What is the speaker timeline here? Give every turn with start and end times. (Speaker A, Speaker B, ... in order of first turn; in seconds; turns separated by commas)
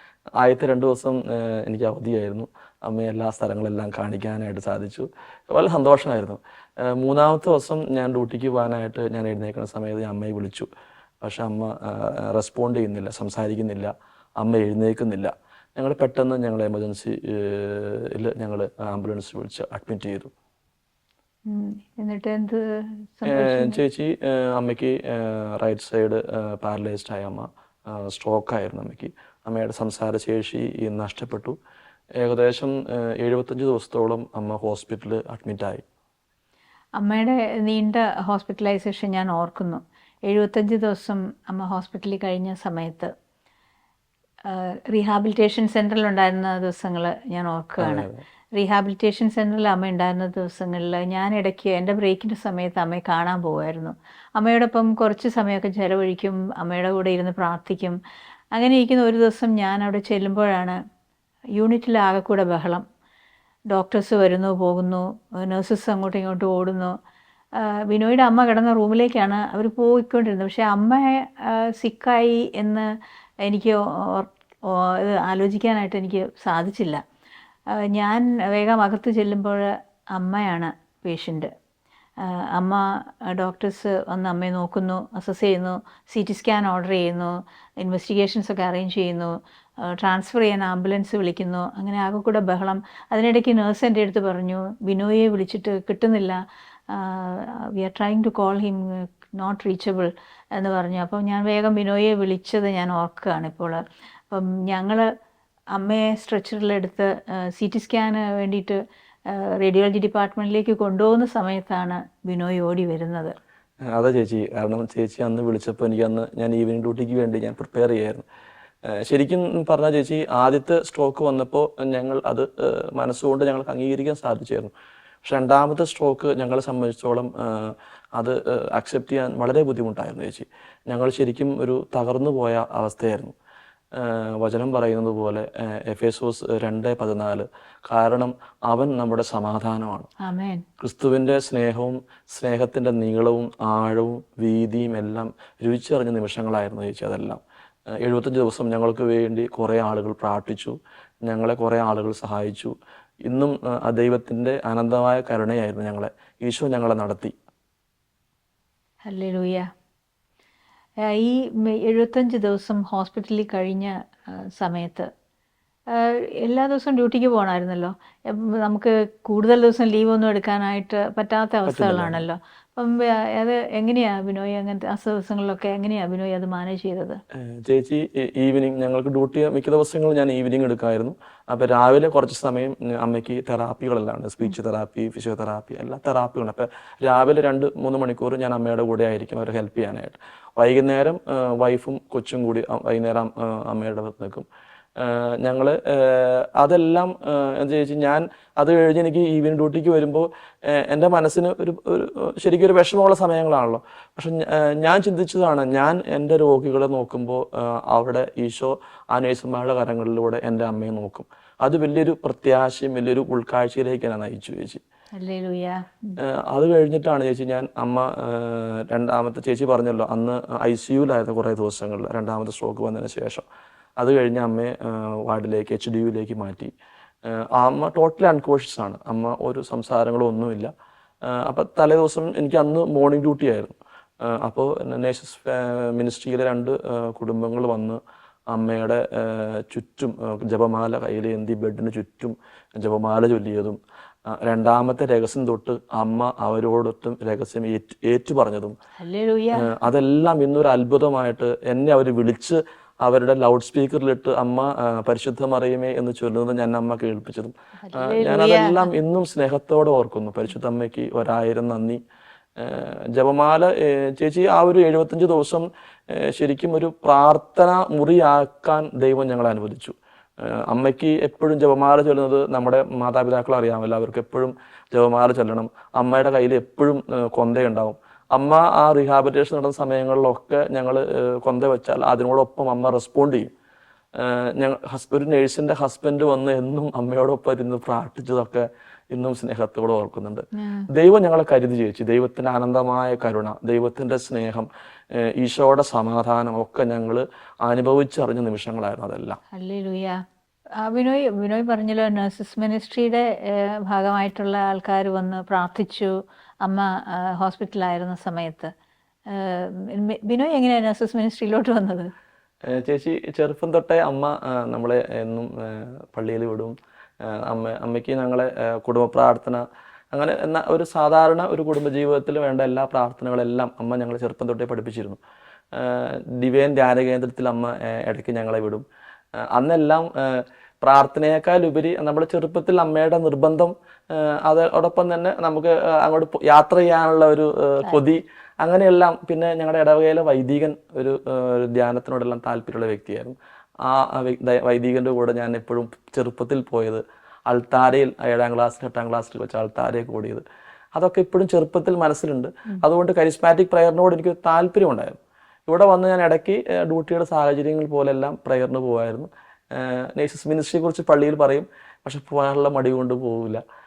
Speaker A: 0.4-10.7, Speaker A: 11.2-20.3, Speaker B: 21.5-22.6, Speaker B: 23.2-23.8, Speaker A: 23.2-31.6, Speaker A: 32.1-35.8, Speaker B: 37.0-43.1, Speaker B: 44.5-58.0, Speaker A: 47.8-48.2, Speaker B: 58.5-60.8, Speaker B: 61.5-62.8, Speaker B: 63.7-66.9, Speaker B: 67.5-72.9, Speaker B: 73.4-77.0, Speaker B: 77.7-81.5, Speaker B: 82.2-96.4, Speaker B: 96.9-105.1, Speaker B: 105.7-113.3, Speaker A: 113.8-118.2, Speaker A: 118.9-124.7, Speaker A: 125.2-133.3, Speaker A: 133.9-140.1, Speaker B: 140.2-140.6, Speaker A: 140.8-147.4, Speaker A: 148.0-157.3, Speaker B: 159.1-159.7, Speaker B: 161.1-163.9, Speaker B: 164.6-165.1, Speaker B: 165.9-177.2, Speaker A: 171.7-172.2, Speaker A: 177.3-214.8, Speaker B: 215.2-216.2, Speaker A: 216.2-223.4, Speaker A: 224.0-226.7, Speaker A: 227.2-230.7, Speaker A: 231.2-238.0, Speaker A: 238.5-248.8, Speaker B: 249.0-249.7, Speaker A: 249.6-262.0, Speaker B: 257.9-258.9, Speaker A: 262.6-283.5, Speaker A: 284.1-299.4, Speaker B: 290.6-290.9, Speaker B: 299.5-300.2, Speaker B: 300.8-306.1, Speaker B: 306.6-308.7, Speaker B: 309.3-312.1, Speaker A: 312.6-325.2, Speaker A: 325.7-328.8, Speaker A: 329.4-350.4, Speaker A: 350.9-363.6